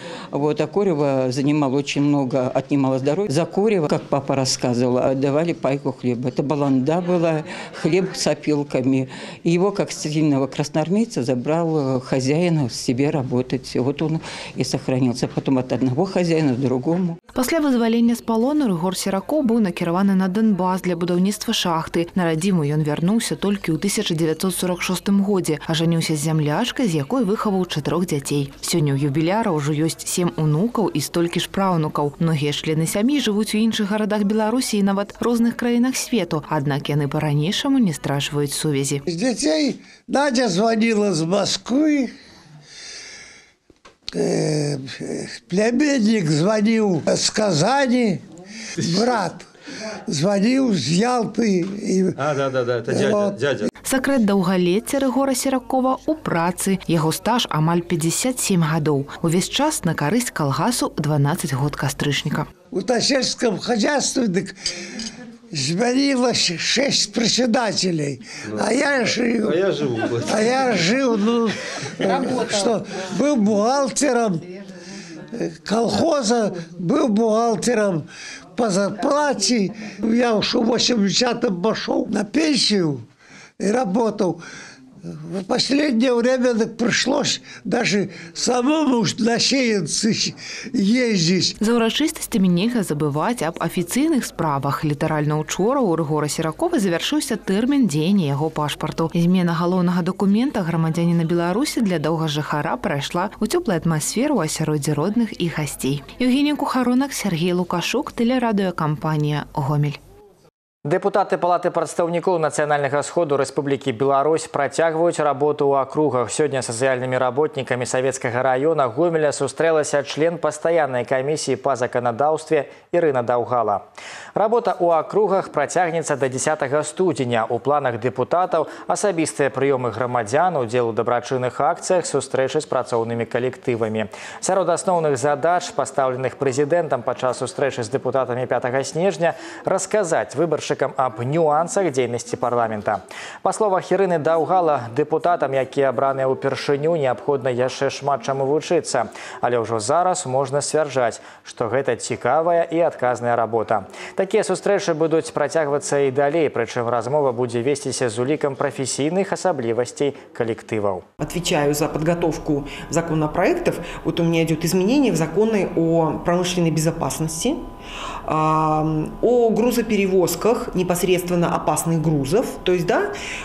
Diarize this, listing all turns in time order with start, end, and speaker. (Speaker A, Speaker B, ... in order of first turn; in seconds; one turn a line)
Speaker A: 0.3-17.2
Speaker B: 17.3-39.0
Speaker C: 39.1-42.1
Speaker C: 44.2-48.2
Speaker C: 48.9-49.4
Speaker C: 50.1-52.1
Speaker C: 52.9-53.4
Speaker B: 53.9-62.5
Speaker C: 62.7-64.5
Speaker C: 65.5-69.5
Speaker C: 70.2-74.4
Speaker C: 75.3-78.0
Speaker C: 78.6-83.0
Speaker C: 83.6-84.4
Speaker C: 85.3-91.5
Speaker B: 91.6-110.0
Speaker D: 110.8-123.8
Speaker D: 124.3-161.0
Speaker E: 161.2-167.7
Speaker E: 168.2-173.1